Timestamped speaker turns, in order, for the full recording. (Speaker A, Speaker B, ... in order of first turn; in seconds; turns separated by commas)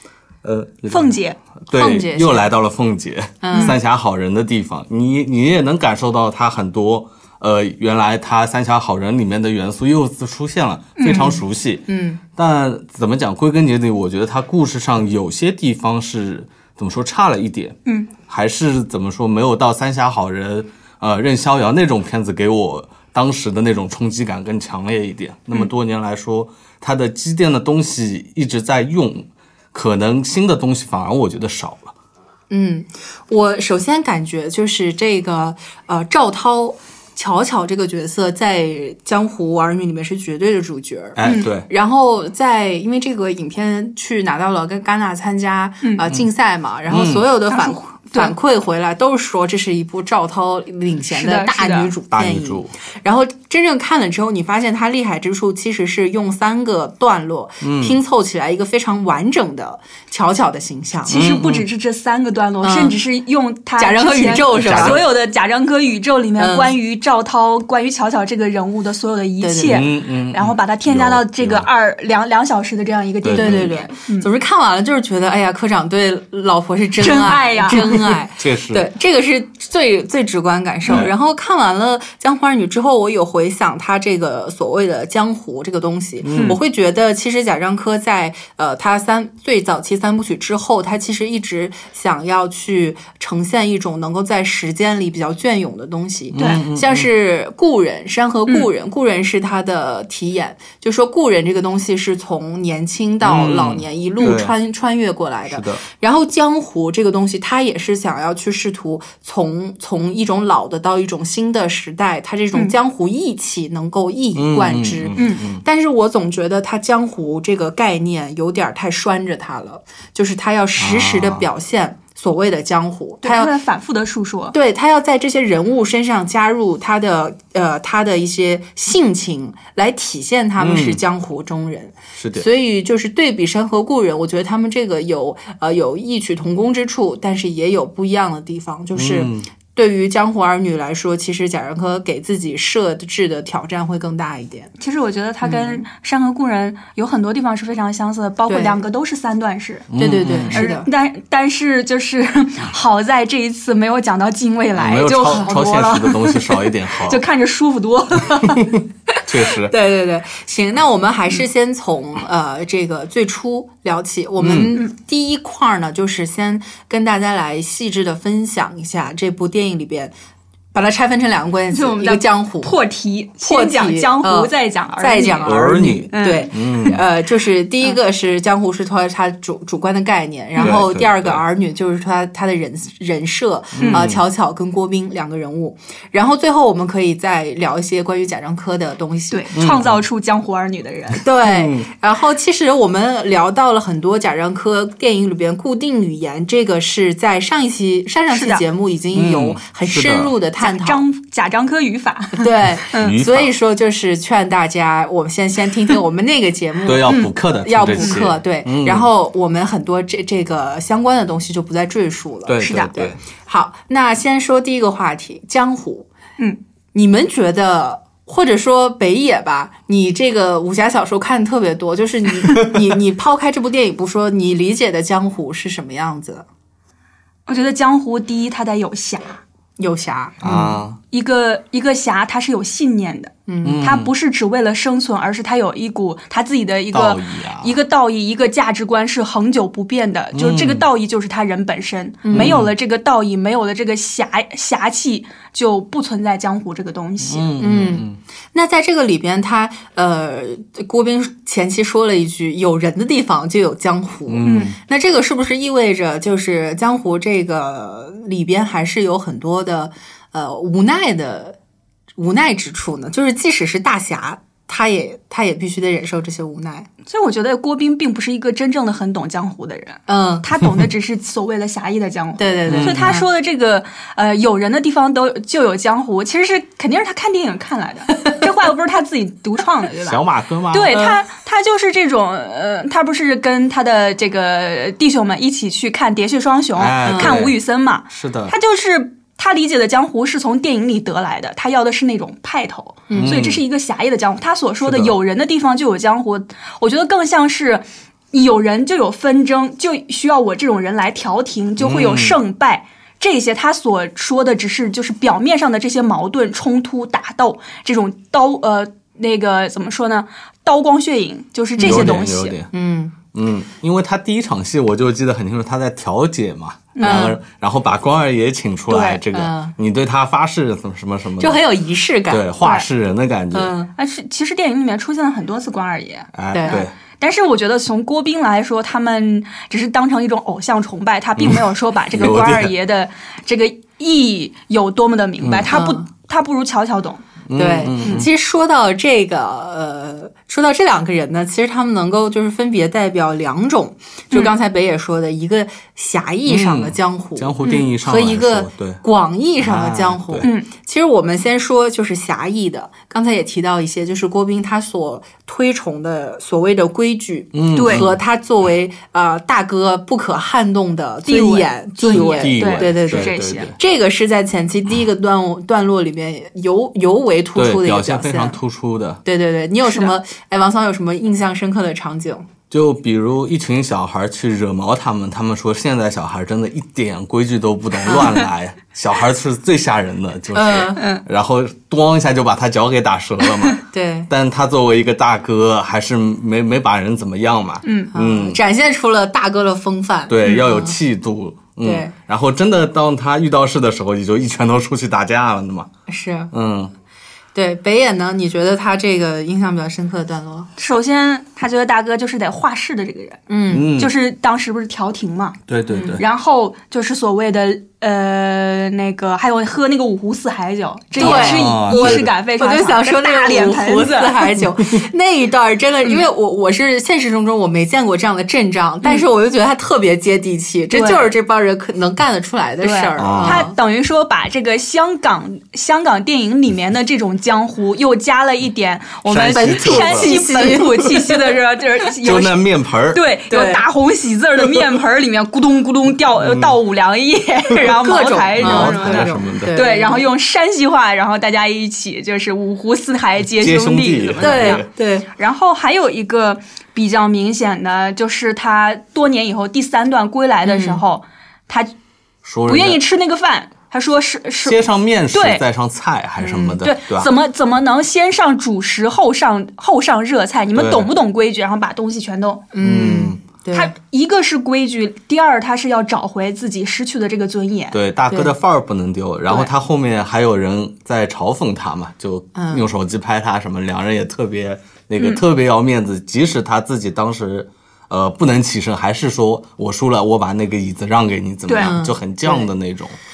Speaker A: 0.4-1.1, Speaker B: 0.9-1.4, Speaker A: 1.7-31.9, Speaker C: 1.7-2.5, Speaker C: 3.4-3.8, Speaker B: 10.9-11.4, Speaker C: 11.1-12.2, Speaker C: 32.5-61.3, Speaker A: 41.1-41.7, Speaker B: 41.2-41.5, Speaker A: 46.9-47.3, Speaker B: 47.5-48.3, Speaker B: 51.1-51.9, Speaker A: 52.1-52.7, Speaker A: 57.6-58.0, Speaker B: 61.1-74.3, Speaker A: 61.1-61.6, Speaker C: 62.6-63.0, Speaker C: 63.8-65.0, Speaker A: 64.5-65.0, Speaker C: 66.4-66.7, Speaker C: 69.4-69.8, Speaker A: 69.6-71.7, Speaker A: 73.2-73.7, Speaker C: 73.3-123.5, Speaker B: 77.0-77.8, Speaker A: 77.6-78.9, Speaker A: 80.9-81.1, Speaker A: 86.2-86.6, Speaker B: 86.3-86.6, Speaker A: 96.3-97.1, Speaker B: 96.3-96.6, Speaker A: 103.2-104.5, Speaker A: 105.5-105.8, Speaker A: 114.3-115.6, Speaker B: 115.2-115.4, Speaker A: 120.8-121.5, Speaker B: 123.2-124.5, Speaker C: 124.5-144.7, Speaker A: 130.6-131.0, Speaker A: 132.2-132.5, Speaker A: 138.9-139.5, Speaker B: 144.8-149.9, Speaker C: 145.4-145.8, Speaker C: 148.5-148.8, Speaker A: 149.9-150.6, Speaker C: 150.0-150.9, Speaker B: 150.5-158.7, Speaker A: 154.8-157.2, Speaker C: 155.3-155.5, Speaker A: 158.5-159.7, Speaker C: 159.6-170.1, Speaker A: 164.4-164.8, Speaker C: 170.7-172.7, Speaker B: 171.7-175.5, Speaker C: 173.4-189.5, Speaker A: 175.4-177.0, Speaker B: 176.1-176.5, Speaker B: 180.6-180.8, Speaker A: 180.6-181.4, Speaker A: 183.7-184.2, Speaker B: 183.8-184.0, Speaker B: 189.3-191.2, Speaker A: 189.5-190.0, Speaker C: 191.2-201.0, Speaker A: 191.4-191.9, Speaker B: 198.3-198.6, Speaker A: 199.1-200.3, Speaker B: 200.6-203.1, Speaker C: 202.4-216.1, Speaker A: 202.9-203.5, Speaker A: 206.8-209.1, Speaker B: 207.1-207.3, Speaker A: 212.5-213.2, Speaker B: 212.6-212.9, Speaker C: 216.9-226.4, Speaker B: 227.5-229.4, Speaker C: 229.8-230.8, Speaker A: 230.4-231.0, Speaker B: 231.1-247.5, Speaker C: 233.5-233.8, Speaker A: 233.6-234.1, Speaker A: 236.9-237.7, Speaker A: 240.3-240.8, Speaker C: 242.2-242.6, Speaker A: 242.3-242.7, Speaker A: 247.2-248.2, Speaker C: 247.6-261.6, Speaker A: 254.3-254.8, Speaker B: 254.4-254.7, Speaker C: 262.2-266.9, Speaker B: 267.0-312.6, Speaker C: 270.1-270.5, Speaker C: 272.4-273.2, Speaker A: 272.7-273.2, Speaker A: 280.1-281.1, Speaker A: 286.8-287.6, Speaker C: 287.0-287.4, Speaker A: 288.1-288.5, Speaker C: 293.1-293.4, Speaker A: 293.1-293.6, Speaker A: 294.8-295.1, Speaker A: 301.8-302.4, Speaker C: 311.8-312.2, Speaker A: 311.8-312.7, Speaker C: 312.7-313.1, Speaker A: 313.3-321.6, Speaker B: 316.9-317.3, Speaker C: 317.0-317.4, Speaker B: 318.9-319.2, Speaker C: 319.3-319.7, Speaker C: 321.4-322.5, Speaker A: 322.3-323.7, Speaker B: 322.6-322.9, Speaker C: 323.5-323.9, Speaker B: 323.9-337.2, Speaker A: 326.3-326.9, Speaker C: 326.5-326.8, Speaker A: 331.4-332.7, Speaker A: 335.4-335.7, Speaker C: 335.7-336.0, Speaker A: 337.5-338.3, Speaker C: 337.5-368.6, Speaker A: 346.4-349.0, Speaker A: 349.6-350.5, Speaker B: 350.4-350.7, Speaker A: 357.5-358.2, Speaker B: 357.7-358.1, Speaker B: 361.2-363.7, Speaker A: 362.1-363.8, Speaker A: 367.5-369.2, Speaker C: 369.2-372.5, Speaker B: 369.8-370.1, Speaker A: 372.7-388.6, Speaker C: 378.1-378.4, Speaker C: 380.5-381.0, Speaker B: 381.0-381.2, Speaker C: 383.9-384.3, Speaker B: 387.8-388.1, Speaker C: 388.1-390.9, Speaker A: 390.3-395.9, Speaker C: 391.8-392.1, Speaker C: 396.1-396.5, Speaker A: 396.5-396.9, Speaker C: 397.5-400.7, Speaker B: 400.8-405.6, Speaker C: 403.5-403.9, Speaker A: 403.7-404.1, Speaker A: 405.7-406.2, Speaker C: 405.9-406.2, Speaker B: 406.1-414.6, Speaker C: 411.1-423.8, Speaker A: 411.2-412.3, Speaker B: 420.9-421.3, Speaker B: 422.8-451.9, Speaker A: 423.2-423.7, Speaker A: 429.2-430.8, Speaker C: 429.5-431.4, Speaker A: 432.2-433.2, Speaker C: 433.5-433.8, Speaker A: 436.4-436.8, Speaker C: 437.8-440.2, Speaker A: 438.5-439.8, Speaker A: 443.5-444.9, Speaker C: 444.4-445.3, Speaker C: 450.6-451.0, Speaker A: 452.4-453.0, Speaker B: 452.6-454.8, Speaker A: 454.6-457.3, Speaker B: 455.3-455.6, Speaker B: 456.4-462.7, Speaker A: 460.7-461.1, Speaker C: 462.7-463.9, Speaker A: 462.8-463.4, Speaker B: 463.7-467.9, Speaker A: 467.9-483.2, Speaker C: 472.5-472.9, Speaker B: 481.7-481.9, Speaker C: 481.8-482.7